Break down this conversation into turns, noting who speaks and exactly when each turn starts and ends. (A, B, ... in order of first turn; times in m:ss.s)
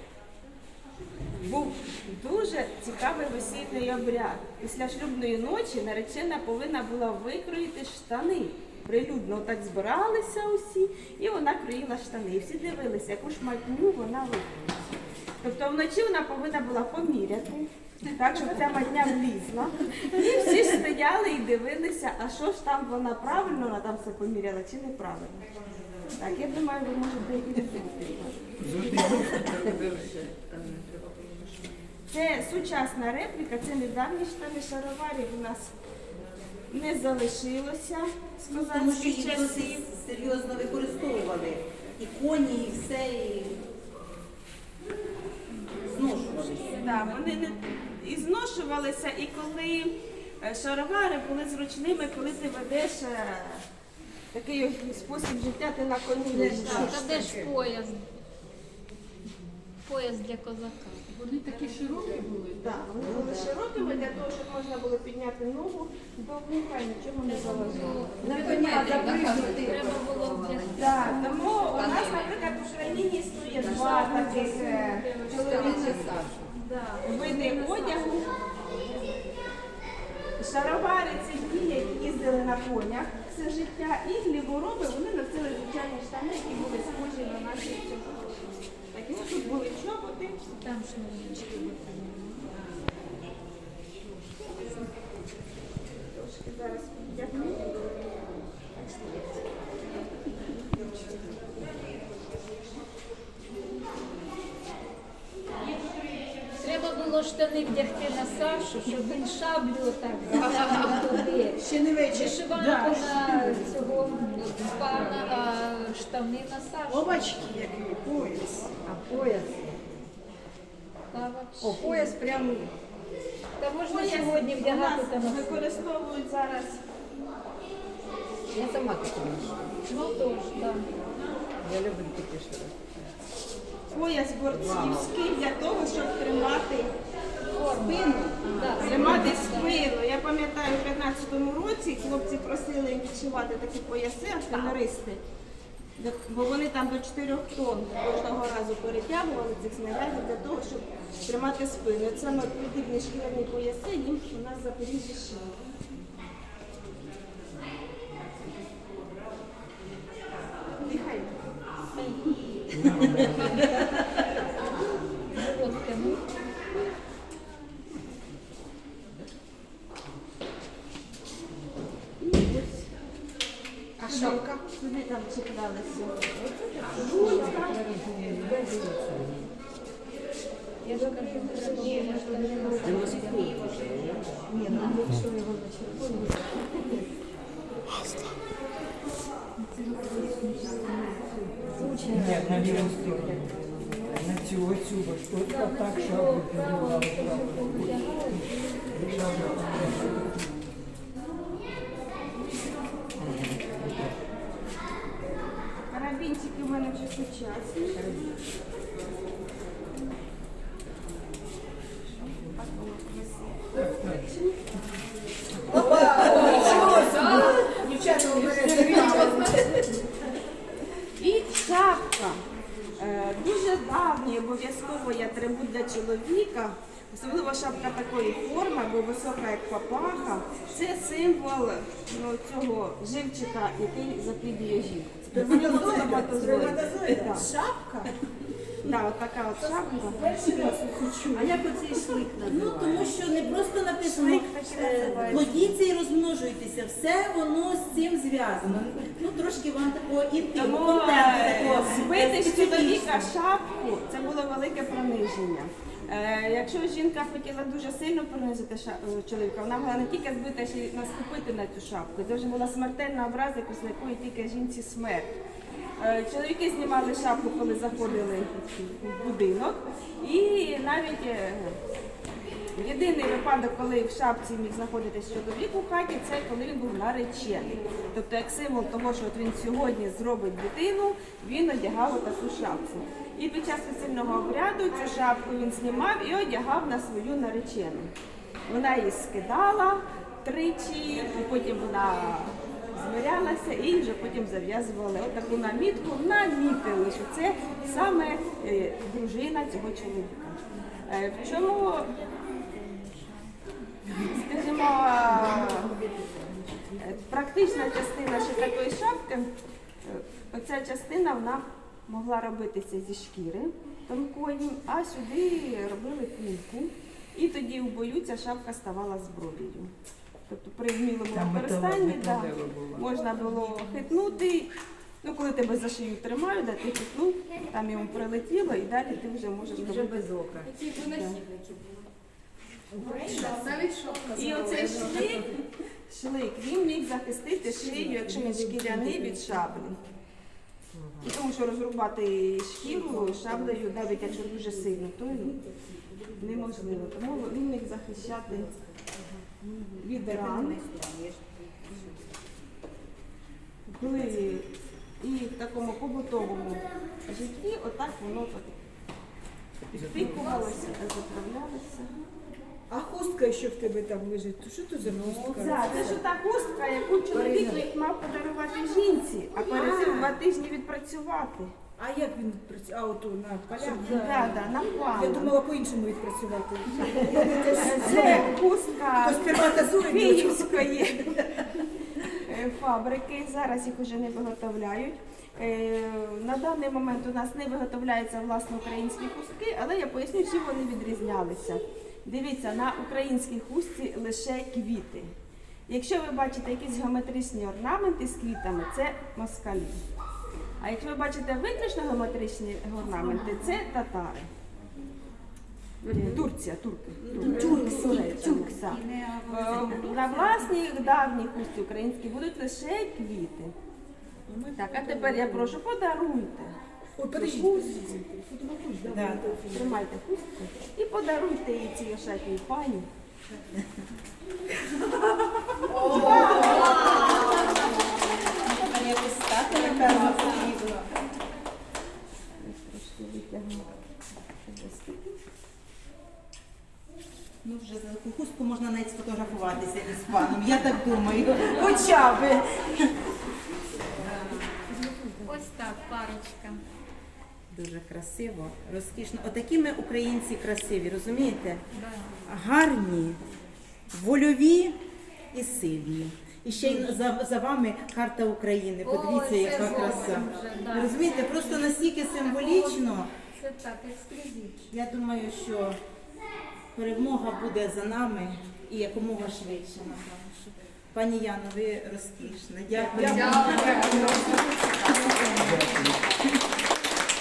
0:01.4-0:14.5 A
0:15.4-0:25.5 A
0:26.2-0:29.4 A
0:28.6-0:29.8 B
0:28.9-0:31.6 C
0:32.1-0:35.7 A
0:36.7-0:39.8 A
0:38.5-0:43.6 D
0:45.9-0:47.0 D
0:46.8-0:53.6 A
0:46.8-0:47.2 E
0:54.3-0:57.1 A
0:56.3-0:57.5 F
0:56.6-0:58.0 E
0:59.8-1:01.1 E
1:01.2-1:02.6 F
1:02.6-1:08.0 A
1:03.0-1:03.5 C
1:07.2-1:11.6 E
1:08.2-1:11.1 C
1:10.7-1:16.2 A
1:11.7-1:12.4 C
1:13.6-1:19.1 E
1:15.3-1:16.5 C
1:17.0-1:18.3 A
1:20.4-1:30.4 A
1:30.4-1:32.5 E
1:36.1-1:37.8 A
1:38.8-1:39.2 A
1:46.6-1:57.2 E
1:50.3-1:53.9 D
1:56.9-1:58.7 D
1:58.8-1:59.5 C
2:01.1-2:02.2 E
2:01.6-2:02.7 C
2:03.6-2:05.7 E
2:03.8-2:06.8 A
2:08.5-2:09.7 C
2:09.8-2:10.9 E
2:11.6-2:12.9 C
2:13.9-2:16.9 A
2:14.5-2:15.1 C
2:17.6-2:19.9 E
2:17.6-2:19.4 D
2:18.8-2:25.2 A
2:26.0-2:35.5 A
2:40.8-2:41.4 A
2:41.9-2:42.3 E
2:42.8-2:43.6 B
2:43.0-2:43.9 E
2:45.3-2:46.2 E
2:52.2-2:52.9 A
2:54.0-2:57.8 A
2:54.1-2:54.3 E
2:57.0-2:59.5 C
3:00.8-3:03.6 E
3:00.9-3:02.4 C
3:01.0-3:03.1 A
3:02.8-3:05.0 D
3:03.1-3:03.4 C
3:04.5-3:07.0 C
3:04.7-3:05.0 E
3:09.8-3:10.8 E
3:11.7-3:12.8 E
3:11.8-3:14.0 C
3:12.0-3:20.4 B
3:15.4-3:20.1 E
3:23.2-3:23.6 B
3:25.9-3:28.1 A
3:32.1-3:34.6 A
3:35.7-3:39.8 F
3:35.7-3:37.1 A
3:36.2-3:37.6 E
3:36.5-3:39.4 C
3:38.9-3:39.6 E
3:41.2-3:42.4 A
3:43.0-3:57.5 A
3:55.3-3:58.1 F
3:55.4-3:56.8 D
3:58.8-4:00.2 A
3:59.7-4:00.7 C
4:00.0-4:02.1 F
4:01.4-4:03.1 C
4:02.4-4:13.3 D
4:04.0-4:05.5 A
4:05.2-4:05.4 C
4:10.5-4:25.3 A
4:26.0-4:31.8 A
4:32.8-4:48.1 A
4:48.7-5:02.1 A
5:04.1-5:05.9 A
5:05.3-5:07.1 F
5:07.0-5:09.5 A
5:10.0-5:19.9 A
5:20.5-5:24.7 A
5:21.3-5:22.9 B
5:23.6-5:23.8 E
5:25.2-5:30.3 A
5:29.8-5:31.9 C
5:30.6-5:31.4 E
5:32.9-5:35.3 C
5:33.0-5:33.6 A
5:33.0-5:35.4 E
5:34.3-5:40.0 A
5:38.4-5:39.3 C
5:41.2-5:45.6 A
5:43.0-5:44.9 C
5:46.2-5:46.7 C
5:46.4-5:48.7 A
5:49.6-5:52.2 D
5:50.0-5:50.8 A
5:53.9-5:54.7 A
5:55.2-5:58.8 A
5:59.9-6:02.1 A
6:02.9-6:06.2 F
6:05.5-6:11.7 A
6:07.4-6:07.7 F
6:09.7-6:10.4 D
6:12.0-6:18.6 F
6:13.8-6:15.5 A
6:17.2-6:21.6 A
6:19.2-6:20.9 F
6:22.3-6:35.3 A
6:35.9-6:40.0 A
6:40.8-6:44.5 A
6:46.0-6:53.7 A
6:47.2-6:50.7 D
6:47.5-6:48.1 C
6:54.7-6:56.7 A
6:57.2-7:00.0 F
6:57.3-6:58.2 A
6:59.1-6:59.4 D
6:59.7-7:03.1 A
7:05.8-7:11.1 D
7:05.9-7:07.2 A
7:12.6-7:14.0 A
7:14.6-7:15.3 A
7:17.6-7:23.2 D
7:24.9-7:25.6 F
7:25.4-7:26.8 E
7:27.7-7:31.8 D
7:31.9-7:32.4 E
7:32.4-7:33.4 D
7:34.1-7:35.0 D
7:35.5-7:43.3 D
7:39.0-7:44.9 E
7:44.9-7:46.0 D
7:46.9-7:54.4 D
7:53.1-7:54.6 F
7:53.2-7:55.8 C
7:55.5-7:56.3 B